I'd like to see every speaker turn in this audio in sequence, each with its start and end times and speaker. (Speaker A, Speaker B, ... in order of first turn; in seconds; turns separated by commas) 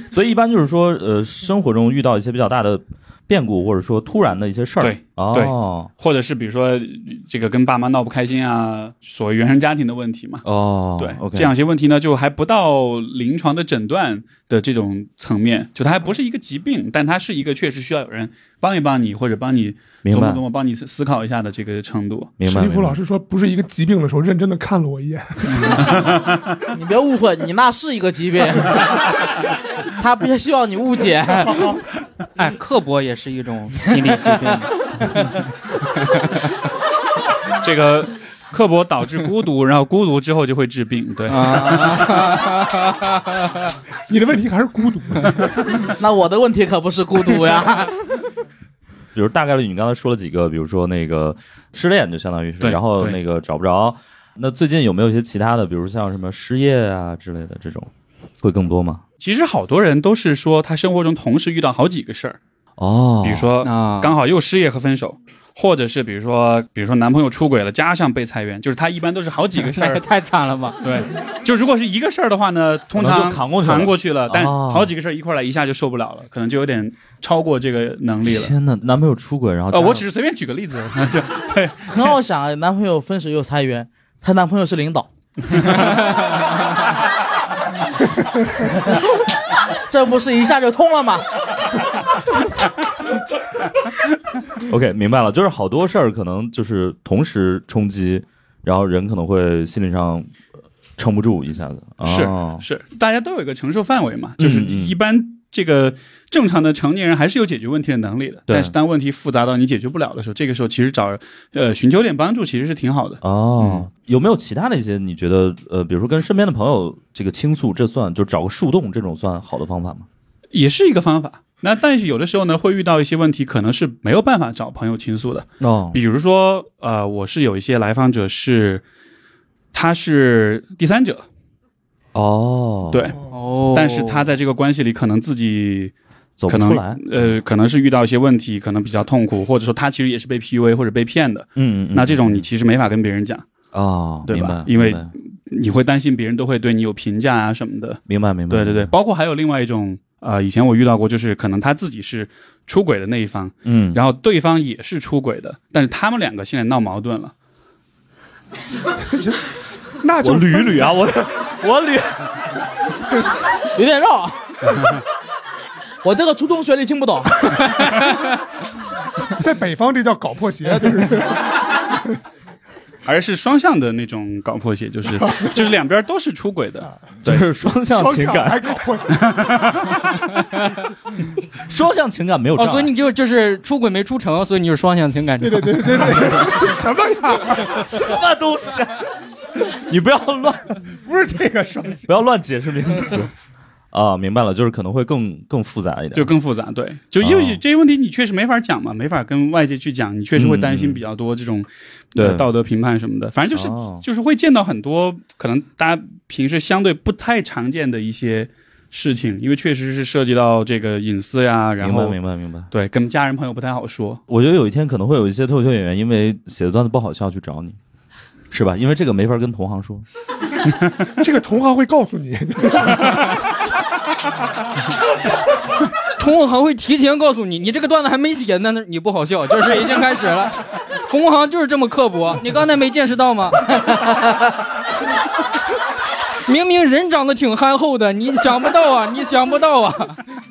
Speaker A: 0.1-5.9, Speaker B: 4.8-10.4, Speaker A: 10.4-11.5, Speaker B: 11.0-22.3, Speaker A: 20.1-20.4, Speaker A: 22.4-23.0, Speaker C: 22.4-26.1, Speaker B: 25.5-26.4, Speaker D: 26.7-28.9, Speaker D: 30.0-31.7, Speaker E: 32.4-35.3, Speaker E: 36.0-36.4, Speaker B: 37.6-42.4, Speaker E: 41.3-43.4, Speaker C: 44.1-45.9, Speaker D: 46.0-47.9, Speaker A: 49.1-57.9, Speaker B: 52.6-53.2, Speaker A: 58.4-59.0, Speaker B: 59.2-62.4, Speaker A: 62.8-63.5, Speaker B: 63.2-70.0, Speaker E: 63.6-64.1, Speaker E: 69.6-70.8, Speaker B: 70.8-78.5, Speaker A: 72.9-74.9, Speaker A: 78.2-80.0, Speaker B: 79.7-82.1, Speaker D: 81.9-85.1, Speaker B: 85.5-85.8, Speaker D: 89.9-91.3, Speaker A: 94.6-100.3, Speaker A: 101.0-102.6, Speaker B: 102.0-113.9, Speaker A: 104.4-105.0, Speaker A: 108.5-108.7, Speaker A: 113.2-120.1, Speaker B: 120.5-128.8, Speaker A: 125.6-126.0, Speaker B: 129.7-131.3, Speaker A: 132.1-133.2, Speaker B: 132.9-133.2, Speaker E: 133.3-134.2, Speaker B: 133.7-135.9, Speaker A: 136.4-137.4, Speaker B: 136.5-143.4, Speaker A: 141.6-142.4, Speaker A: 143.7-145.1, Speaker B: 144.3-157.3, Speaker A: 148.1-148.9, Speaker A: 153.6-154.0, Speaker C: 159.1-159.4, Speaker C: 160.0-161.0, Speaker A: 160.2-162.4, Speaker D: 163.8-164.8, Speaker D: 166.0-167.7, Speaker C: 169.4-172.2, Speaker B: 173.1-177.5, Speaker C: 175.2-175.6, Speaker A: 177.2-178.8, Speaker C: 177.8-179.9, Speaker A: 181.6-182.9, Speaker E: 182.6-186.5, Speaker C: 185.4-188.1, Speaker A: 187.7-190.8, Speaker C: 191.0-192.1, Speaker A: 192.1-193.3, Speaker A: 193.9-196.3, Speaker B: 196.1-212.2, Speaker A: 197.2-197.6, Speaker A: 200.3-201.0, Speaker A: 202.2-202.5, Speaker A: 203.5-204.0, Speaker A: 211.8-212.7, Speaker B: 212.7-214.2, Speaker A: 214.3-217.8, Speaker A: 218.5-220.1, Speaker C: 221.2-223.4, Speaker E: 226.2-234.5, Speaker E: 236.4-240.2